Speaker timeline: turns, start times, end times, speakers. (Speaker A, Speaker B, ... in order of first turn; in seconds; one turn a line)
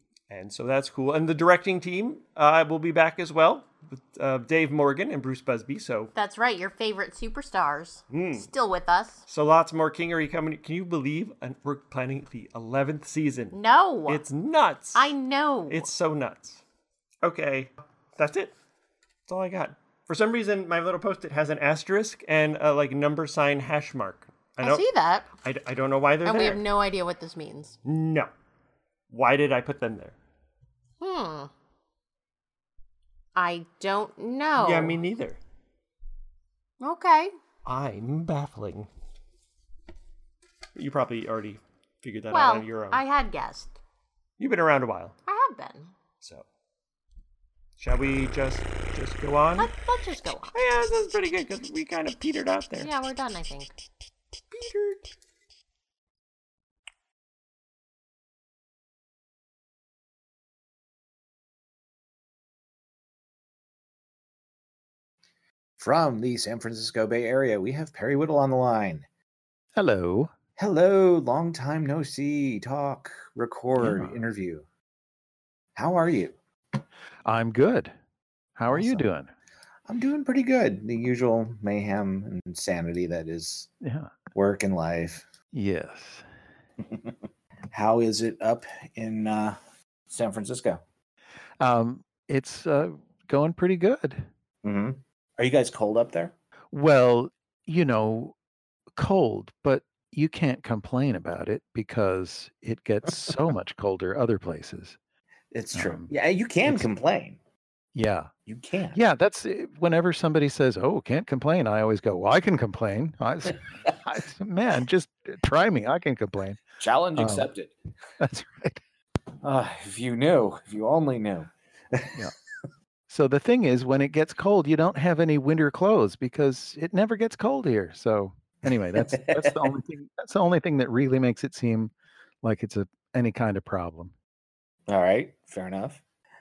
Speaker A: 0.3-6.1
Speaker B: 6.2-9.2
Speaker A: 8.1-8.5
Speaker A: 9.3-13.6
Speaker B: 13.5-14.2
Speaker A: 14.1-15.1
Speaker B: 14.9-15.9
Speaker A: 15.7-16.6
Speaker A: 17.2-18.5
Speaker A: 19.3-24.8
Speaker B: 24.6-25.3
Speaker A: 25.4-26.6
Speaker B: 26.2-27.8
Speaker A: 27.9-28.3
Speaker A: 29.1-30.1
Speaker B: 31.0-31.5
Speaker B: 33.4-35.0
Speaker A: 34.6-35.4
Speaker B: 36.8-37.3
Speaker A: 37.7-38.9
Speaker A: 40.8-43.0
Speaker B: 42.3-43.7
Speaker A: 44.4-45.1
Speaker B: 45.3-45.9
Speaker A: 47.8-49.7
Speaker B: 49.6-50.6
Speaker A: 50.5-52.9
Speaker B: 52.8-53.7
Speaker A: 54.5-55.0
Speaker C: 65.8-69.1
Speaker D: 69.8-70.3
Speaker C: 70.6-74.7
Speaker D: 73.8-74.2
Speaker C: 75.8-76.4
Speaker D: 77.2-77.9
Speaker D: 78.6-79.3
Speaker C: 78.7-79.0
Speaker C: 79.9-83.7
Speaker D: 83.8-84.2
Speaker C: 84.3-85.3
Speaker D: 85.5-86.3
Speaker C: 86.8-87.1
Speaker C: 87.7-89.6
Speaker C: 90.1-90.8
Speaker D: 91.6-94.3
Speaker C: 94.6-96.3
Speaker D: 96.7-98.3
Speaker D: 99.0-105.0
Speaker C: 105.5-107.4
Speaker D: 105.8-106.1
Speaker D: 107.9-108.3
Speaker C: 108.5-109.0
Speaker D: 108.9-116.6
Speaker C: 116.8-117.7
Speaker D: 117.2-117.5
Speaker D: 118.2-118.8
Speaker C: 119.4-122.2
Speaker D: 123.1-131.9
Speaker C: 129.0-129.6
Speaker D: 132.4-134.1
Speaker C: 134.9-136.0